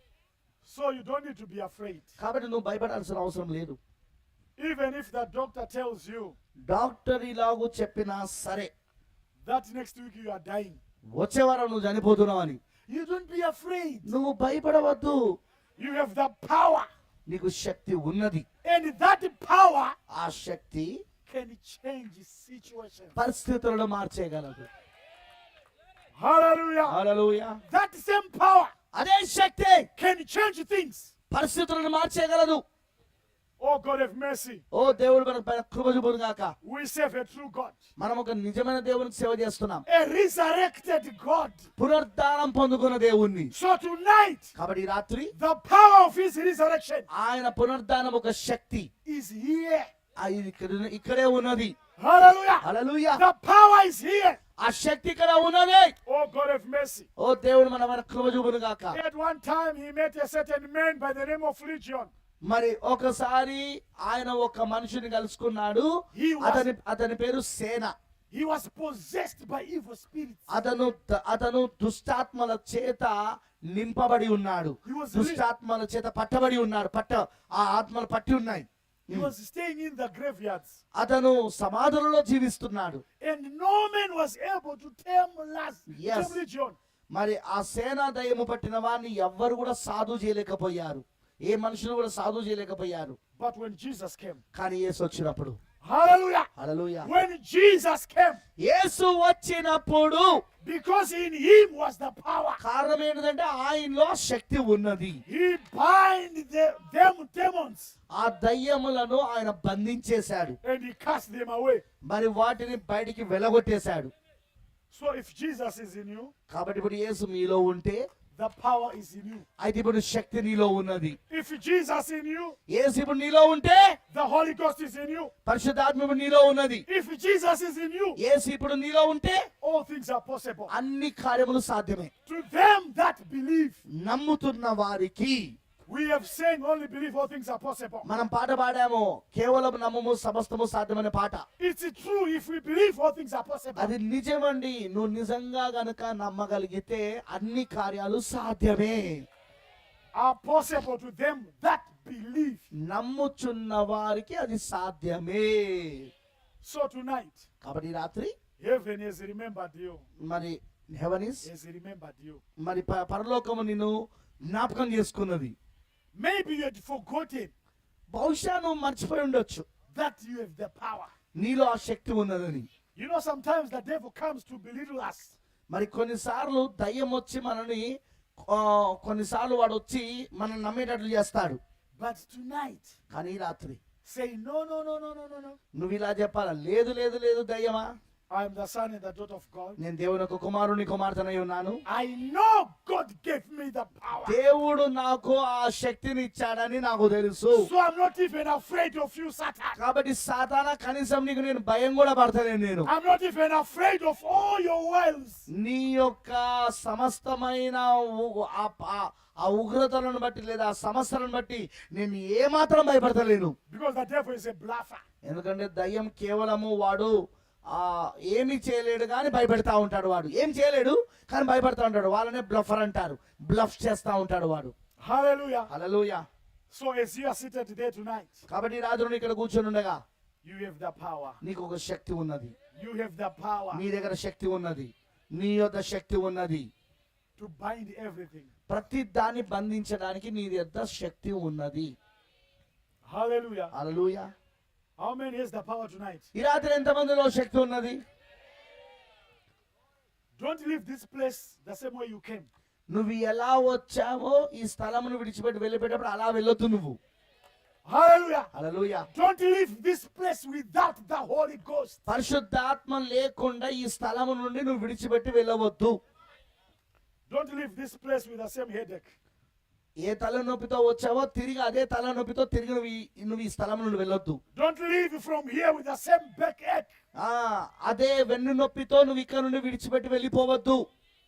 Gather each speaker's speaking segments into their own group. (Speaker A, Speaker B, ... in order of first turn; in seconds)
Speaker A: 0.6-2.1, 4.6-6.3, 9.4-10.8, 12.9-14.1, 15.8-16.9, 18.6-19.9, 21.2-23.2, 26.1-27.0, 27.7-28.7, 30.0-31.1, 33.6-34.6, 36.6-37.8, 39.9-41.7, 43.5-44.5, 45.3-47.1, 49.0-49.9, 52.0-54.4, 56.0-57.1, 58.9-62.1, 66.1-66.7, 68.3-70.5, 74.8-75.4, 79.1-80.8, 83.2-86.8, 93.4-94.4, 95.8-96.5, 97.0-98.4, 100.6-102.6, 105.3-107.9, 110.6-111.8, 114.9-116.3, 118.3-119.4, 121.3-122.5, 124.1-125.3, 126.9-128.2, 129.6-130.7, 132.2-133.8, 135.9-138.1, 141.6-143.9, 150.1-152.7, 156.6-157.4, 158.6-160.0, 161.4-162.4, 166.2-167.5, 169.9-171.1, 172.9-175.3, 182.0-182.9, 184.0-185.6, 188.3-189.8, 191.9-194.4, 197.5-199.8, 202.8-205.4, 213.7-215.0, 225.0-225.7, 226.7-228.4, 230.4-231.4, 232.7-233.8, 237.4-238.5, 243.1-243.7, 245.0-246.3, 250.4-252.5, 257.9-258.5, 259.1-262.0, 267.3-269.1, 274.5-276.9
Speaker B: 2.2-3.8, 6.7-8.7, 11.1-12.6, 14.1-15.2, 17.3-18.4, 20.1-21.0, 23.1-24.7, 26.9-27.6, 28.9-29.9, 31.3-32.6, 34.7-36.5, 38.0-39.8, 41.8-43.5, 44.5-45.3, 47.1-48.9, 50.2-51.7, 52.6-53.2, 54.6-55.9, 57.2-59.0, 62.4-67.9, 70.5-79.3, 80.9-83.0, 85.9-86.4, 87.1-93.2, 94.5-95.6, 96.5-97.1, 98.6-100.4, 102.6-105.2, 108.1-110.6, 112.0-114.1, 116.5-118.1, 119.6-121.2, 122.7-124.0, 125.4-126.8, 128.2-129.4, 130.7-132.1, 133.9-135.6, 138.0-141.4, 143.8-149.3, 152.7-156.1, 157.6-158.3, 160.2-161.5, 162.6-165.5, 168.1-169.7, 171.3-172.7, 175.7-181.6, 183.1-183.8, 185.7-187.9, 189.8-191.8, 194.2-197.7, 199.8-202.9, 205.5-213.5, 215.2-224.7, 225.7-226.2, 228.5-230.0, 231.4-232.5, 233.7-236.7, 238.7-241.9, 243.7-244.3, 246.3-248.0, 252.9-257.0, 258.5-259.1, 262.1-266.0, 270.0-274.4, 277.1-280.8